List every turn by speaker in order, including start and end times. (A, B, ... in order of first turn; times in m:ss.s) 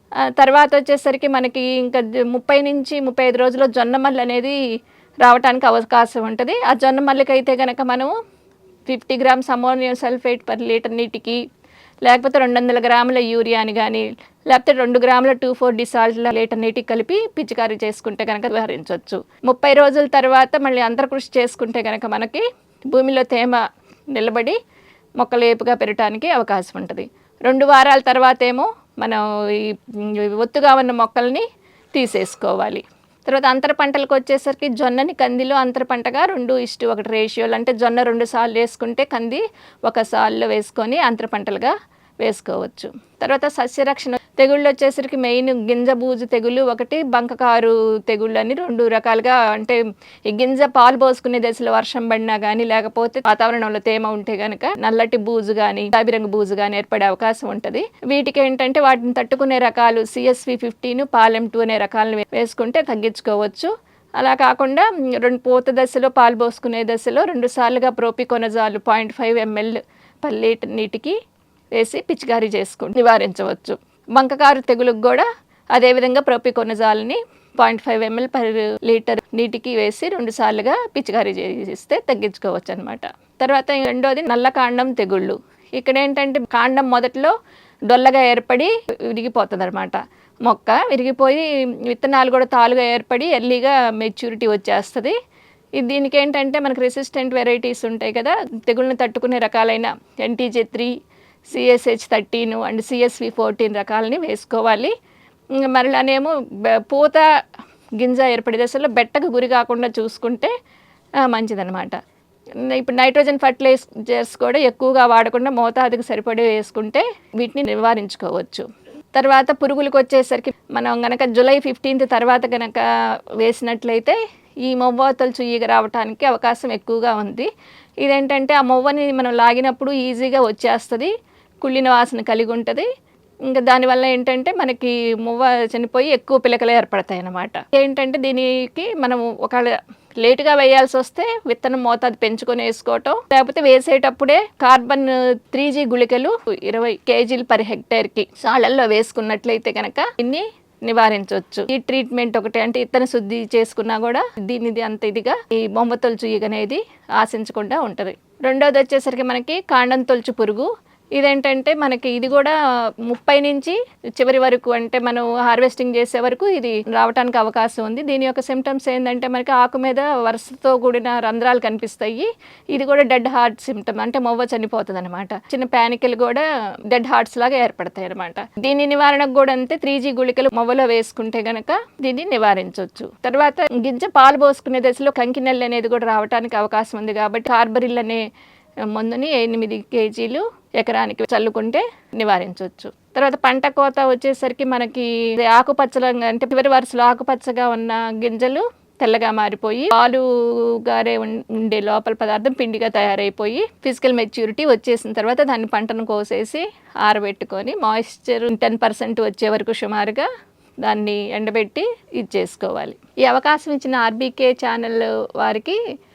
0:00.3-0:04.6 A
0:05.2-0:08.1 A
0:08.9-0:11.4 A
0:12.0-0:23.6 A
0:24.1-0:24.6 A
0:25.2-1:11.2 A
1:11.8-1:27.4 A
1:27.9-1:35.2 A
1:35.8-1:40.9 A
1:41.5-1:44.9 A
1:45.6-1:47.3 A
1:48.0-1:50.5 A
1:51.2-1:52.0 A
1:52.6-2:02.8 A
2:03.4-2:07.5 A
2:08.0-2:11.1 A
2:11.6-2:12.9 A
2:13.5-3:08.2 A
3:08.9-3:30.3 A
3:30.8-3:35.8 A